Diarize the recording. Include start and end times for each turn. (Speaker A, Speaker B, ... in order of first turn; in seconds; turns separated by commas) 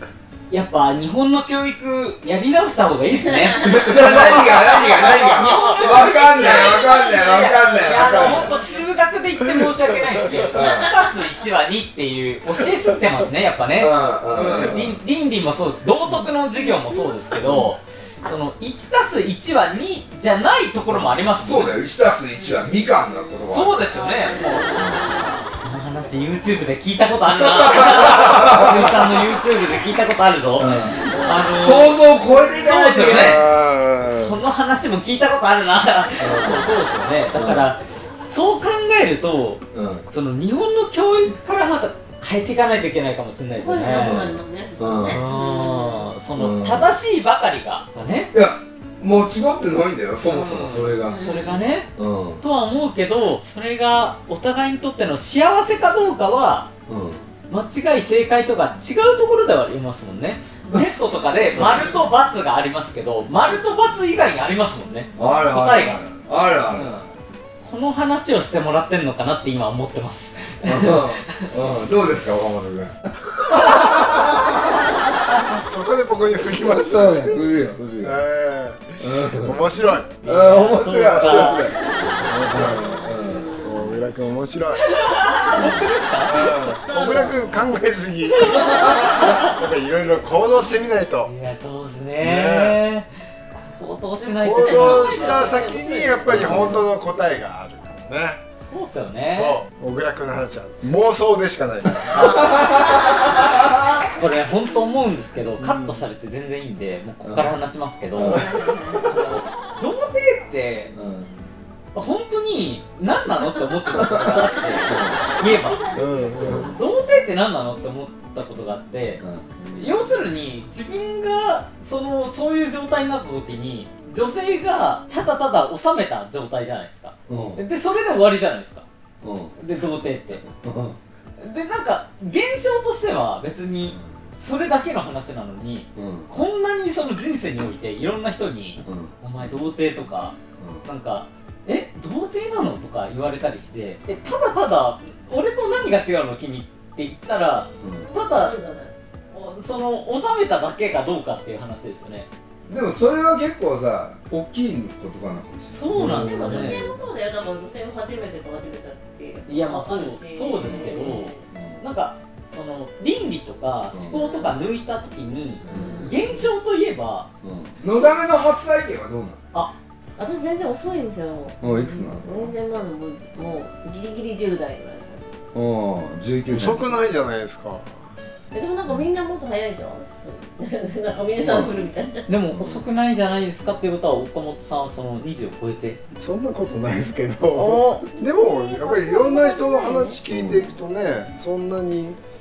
Speaker A: 0.5-21.7, Speaker B: 3.6-8.5, Speaker C: 6.1-8.8, Speaker B: 10.5-10.8, Speaker C: 10.5-10.9, Speaker B: 13.8-15.0, Speaker B: 21.4-23.8, Speaker A: 23.5-32.0, Speaker C: 23.9-25.3, Speaker B: 24.8-25.0, Speaker B: 27.3-29.0, Speaker B: 30.6-31.0, Speaker C: 31.1-31.4, Speaker B: 31.6-33.5, Speaker A: 32.5-33.4, Speaker D: 33.0-34.3, Speaker A: 34.0-44.3, Speaker B: 36.2-36.7, Speaker B: 37.3-37.7, Speaker B: 39.7-40.0, Speaker C: 43.5-46.1, Speaker B: 43.9-44.3, Speaker B: 44.8-45.2, Speaker A: 45.1-48.3, Speaker B: 46.4-46.9, Speaker B: 48.3-51.2, Speaker A: 50.2-56.7, Speaker C: 51.0-51.6, Speaker B: 52.0-52.4, Speaker B: 56.9-57.2, Speaker A: 57.5-66.0, Speaker B: 61.5-61.9, Speaker B: 65.2-67.0, Speaker A: 66.7-67.0, Speaker A: 67.6-71.5, Speaker B: 70.6-74.5, Speaker D: 74.3-74.6, Speaker D: 75.6-80.2, Speaker B: 76.5-78.2, Speaker B: 79.0-79.6, Speaker A: 80.2-81.7, Speaker B: 80.2-81.8, Speaker D: 80.8-85.0, Speaker C: 82.5-84.0, Speaker B: 82.5-83.5, Speaker A: 84.8-86.5, Speaker D: 86.2-91.3, Speaker C: 86.3-87.7, Speaker A: 88.4-89.5, Speaker A: 91.2-95.7, Speaker D: 92.2-92.8, Speaker C: 94.4-96.8, Speaker D: 94.4-98.4, Speaker A: 96.3-96.8, Speaker A: 98.7-99.6, Speaker D: 99.3-102.5, Speaker A: 102.1-108.5, Speaker B: 102.1-104.0, Speaker B: 107.2-107.5, Speaker B: 108.1-108.5, Speaker C: 108.2-109.1, Speaker A: 109.1-110.9, Speaker B: 110.9-111.3, Speaker A: 111.9-119.2, Speaker B: 113.9-115.2, Speaker C: 114.1-116.9, Speaker D: 115.9-116.7, Speaker B: 116.4-116.7, Speaker B: 119.2-119.5, Speaker C: 119.6-120.0, Speaker A: 119.7-128.8, Speaker B: 127.3-127.6, Speaker B: 129.2-129.5, Speaker A: 129.6-130.4, Speaker B: 130.6-131.0, Speaker A: 131.4-148.5, Speaker B: 135.9-136.3, Speaker B: 138.8-139.5, Speaker B: 140.6-140.8, Speaker B: 147.8-148.1, Speaker C: 148.2-148.9, Speaker A: 149.3-152.3, Speaker B: 152.7-156.8, Speaker A: 155.7-156.8, Speaker D: 155.9-156.7, Speaker C: 156.1-161.4, Speaker A: 159.5-167.3, Speaker B: 160.6-160.9, Speaker B: 161.5-161.8, Speaker B: 163.9-164.4, Speaker C: 165.7-166.4, Speaker B: 165.7-166.1, Speaker B: 167.4-169.5, Speaker C: 170.2-175.2, Speaker B: 171.6-172.5, Speaker B: 175.5-176.8, Speaker D: 176.5-177.9, Speaker C: 178.5-182.2, Speaker B: 181.4-181.7, Speaker A: 182.3-186.0, Speaker B: 182.5-182.9, Speaker D: 186.2-192.2, Speaker A: 187.5-188.1, Speaker C: 188.1-190.7